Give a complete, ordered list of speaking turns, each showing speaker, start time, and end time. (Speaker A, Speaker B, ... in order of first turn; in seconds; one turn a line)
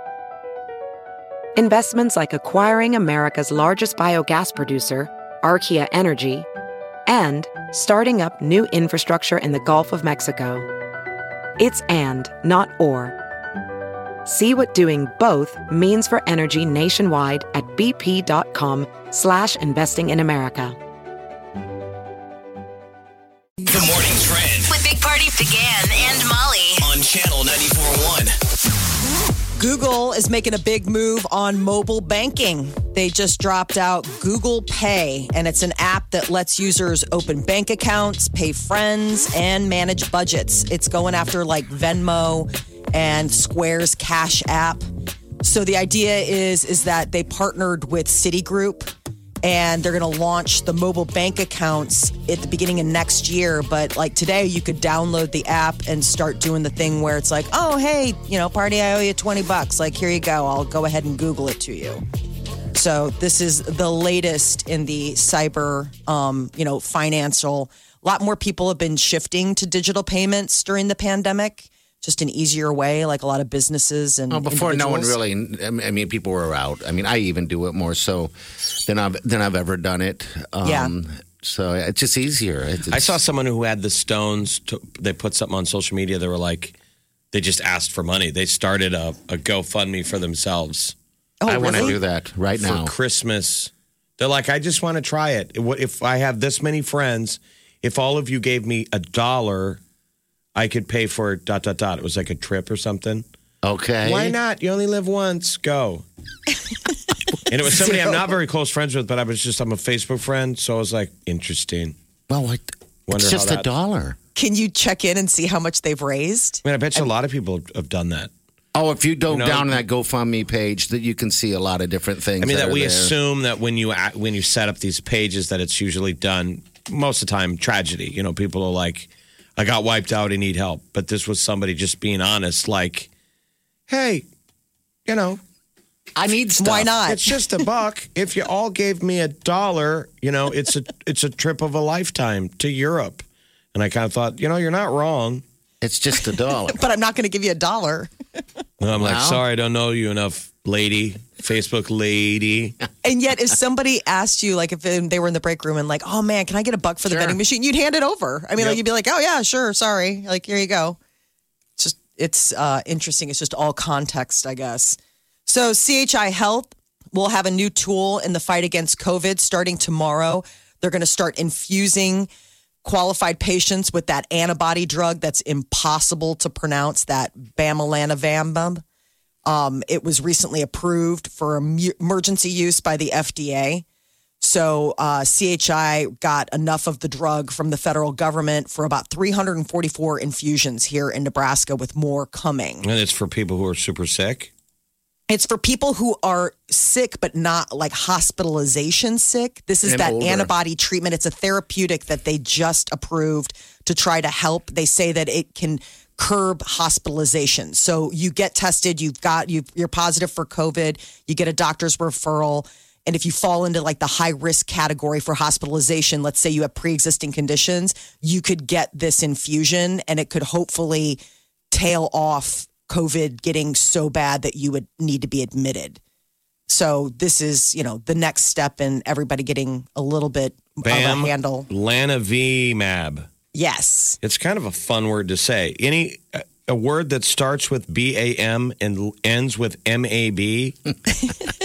Speaker A: 1.6-6.5
Speaker A: 7.1-10.7
Speaker A: 11.6-13.1
Speaker A: 14.2-20.8
Speaker B: 23.7-24.7
Speaker C: 24.7-26.9
Speaker B: 26.8-28.4
Speaker D: 29.6-44.8
Speaker D: 45.4-48.9
Speaker D: 49.4-62.0
Speaker D: 62.7-75.2
Speaker E: 74.3-83.2
Speaker D: 80.6-80.9
Speaker F: 82.9-86.7
Speaker F: 87.3-90.9
Speaker D: 91.4-92.0
Speaker E: 91.5-92.9
Speaker F: 92.6-99.8
Speaker F: 100.5-103.2
Speaker E: 103.6-104.3
Speaker F: 104.0-106.0
Speaker F: 107.5-112.0
Speaker E: 107.6-108.2
Speaker E: 112.3-114.2
Speaker F: 113.1-113.7
Speaker D: 114.3-116.6
Speaker F: 116.6-118.3
Speaker E: 118.7-123.1
Speaker F: 119.3-119.8
Speaker F: 122.4-133.1
Speaker F: 133.9-134.2
Speaker F: 135.1-135.4
Speaker E: 136.2-136.9
Speaker D: 136.6-137.3
Speaker F: 137.1-145.4
Speaker E: 145.8-146.8
Speaker D: 146.7-148.1
Speaker F: 148.8-152.8
Speaker E: 148.9-149.4
Speaker D: 153.0-161.0
Speaker E: 157.1-157.4
Speaker D: 161.8-172.3
Speaker D: 172.8-178.8
Speaker D: 179.4-183.8
Speaker D: 184.4-192.8
Speaker F: 192.8-194.5
Speaker D: 195.3-221.2
Speaker E: 199.8-200.5
Speaker D: 221.7-226.0
Speaker D: 226.7-231.7
Speaker F: 230.8-233.3
Speaker D: 233.5-234.2
Speaker F: 234.2-240.8